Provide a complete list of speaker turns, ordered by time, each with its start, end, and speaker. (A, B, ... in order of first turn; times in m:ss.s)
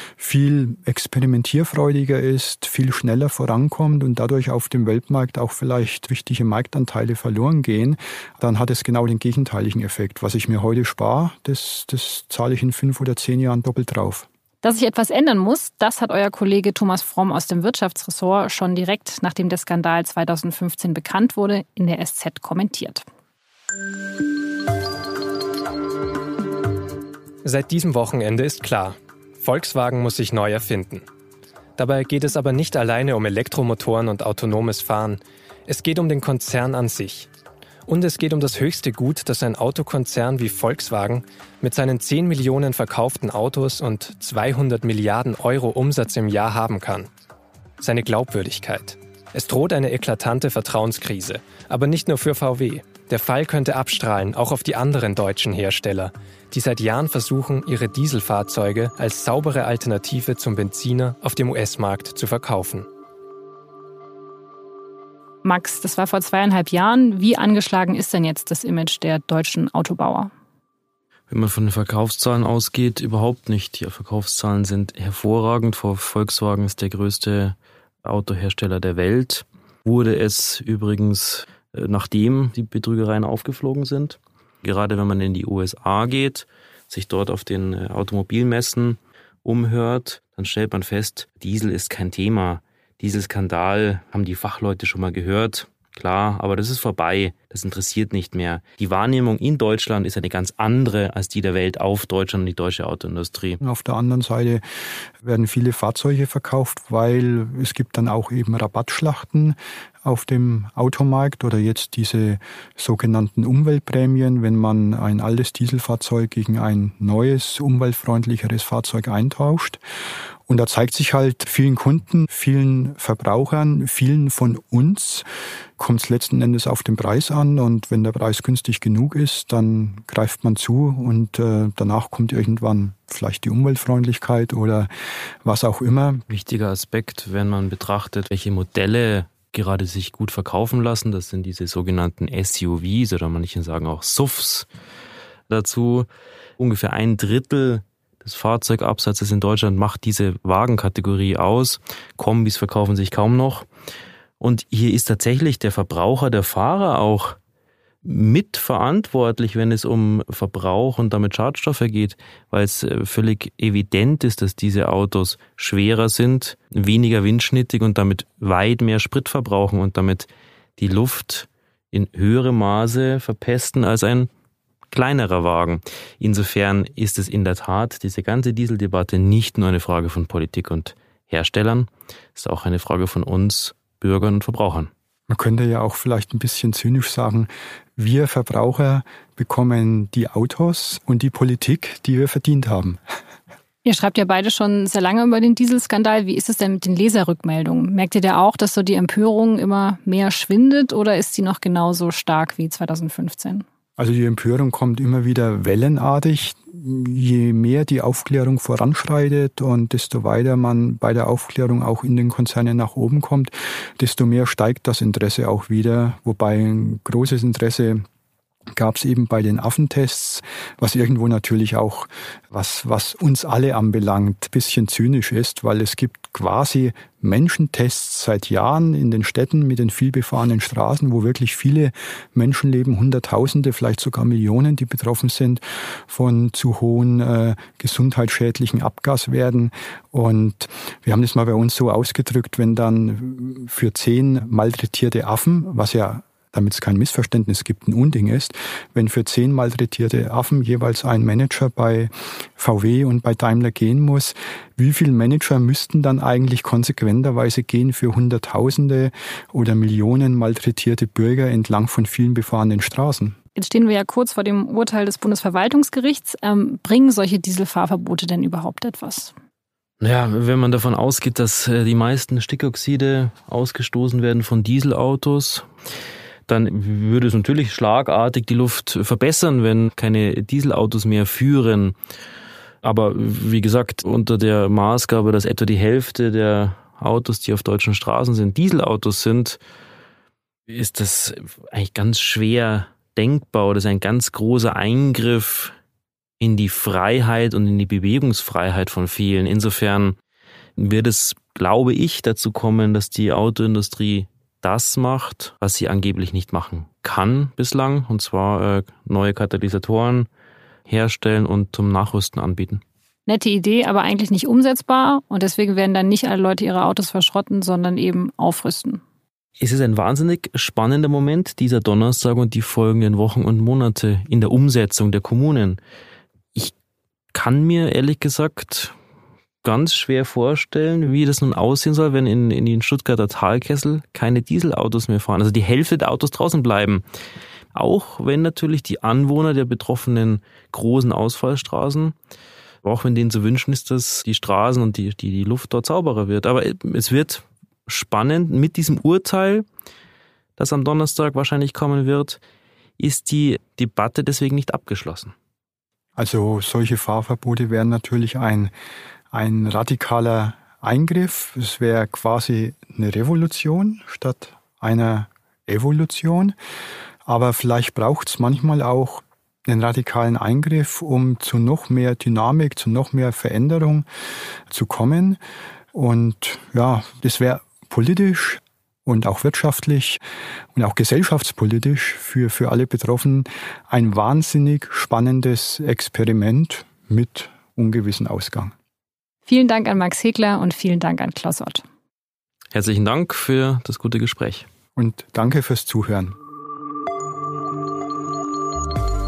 0:00.2-0:14.3 A
0:14.6-0:23.0 B
0:27.4-0:31.1 C
0:31.8-0:37.3 C
0:37.9-0:47.1 C
0:47.8-1:02.9 C
1:05.4-1:10.3 B
1:11.3-1:43.6 D
1:43.6-1:44.6 A
1:45.2-1:59.8 A
2:00.5-2:05.3 A
2:05.8-2:14.9 A
2:15.4-2:16.2 A
2:16.3-2:24.7 D
2:25.5-2:26.1 D
2:26.6-2:33.7 D
2:34.4-2:37.4 D
2:38.0-2:54.3 D
2:54.9-3:04.9 D
3:05.3-3:13.0 A
3:13.8-3:23.6 B
3:24.0-3:38.0 A
3:38.7-4:23.4 A
4:23.6-4:29.3 B
4:30.0-4:35.7 D
4:36.5-4:42.0 D
4:42.8-4:49.6 D
4:50.7-4:55.8 D
4:56.4-5:00.2 D
5:00.8-5:10.3 D
5:10.9-5:12.8 D
5:13.3-5:19.0 B
5:19.6-5:25.8 D
5:27.3-5:28.9 D
5:29.6-5:37.0 D
5:37.7-5:42.2 D
5:42.8-5:49.7 D
5:50.6-5:52.4 D
5:53.0-5:55.3 D
5:56.2-5:58.7 A
5:59.3-6:06.6 A
6:07.3-6:14.1 A
6:14.7-6:15.4 A
6:15.9-6:20.2 A
6:20.8-6:28.7 A
6:29.5-6:31.8 B
6:32.7-6:34.7 D
6:35.0-6:36.4 A